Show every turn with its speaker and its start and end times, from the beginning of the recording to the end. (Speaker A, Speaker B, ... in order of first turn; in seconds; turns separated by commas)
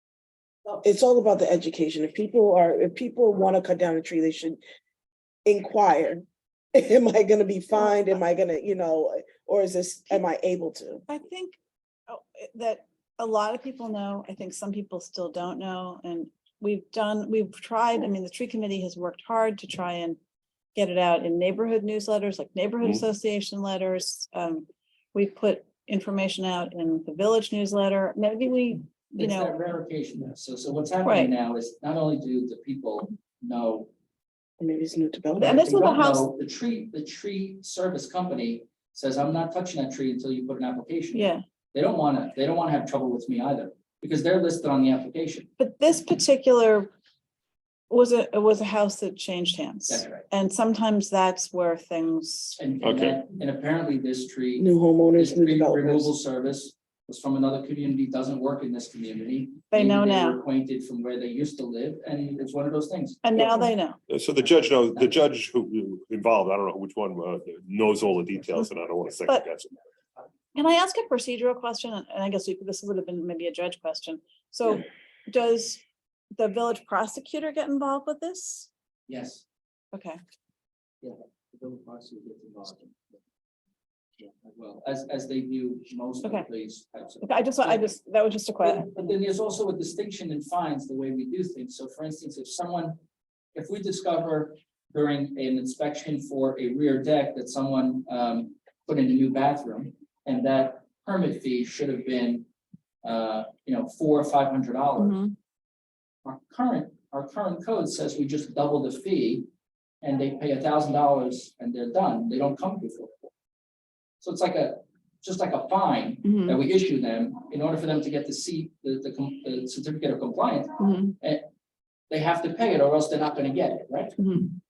Speaker A: 0.8-4.6, Speaker A: 5.5-11.0, Speaker B: 11.1-20.2, Speaker B: 20.8-29.5, Speaker C: 29.2-33.9, Speaker B: 31.1-31.3, Speaker A: 34.6-35.9, Speaker B: 35.4-36.2, Speaker C: 35.4-45.5, Speaker B: 41.1-41.4, Speaker B: 45.6-46.9, Speaker B: 47.9-52.6, Speaker C: 49.9-50.2, Speaker C: 52.6-63.3, Speaker D: 52.8-53.2, Speaker A: 54.6-56.1, Speaker B: 59.7-60.4, Speaker B: 63.2-64.0, Speaker D: 64.1-69.7, Speaker B: 70.5-75.8, Speaker B: 76.4-78.7, Speaker C: 79.1-79.4, Speaker B: 79.9-80.2, Speaker C: 81.0-83.0, Speaker C: 84.2-87.9, Speaker B: 87.2-89.0, Speaker C: 88.6-93.0, Speaker C: 93.5-102.5, Speaker C: 103.0-105.2, Speaker B: 105.0-105.2, Speaker C: 106.2-109.5, Speaker C: 110.0-113.3, Speaker C: 114.2-121.5, Speaker B: 116.2-116.6, Speaker B: 120.8-121.1, Speaker C: 122.1-124.2, Speaker B: 124.2-124.5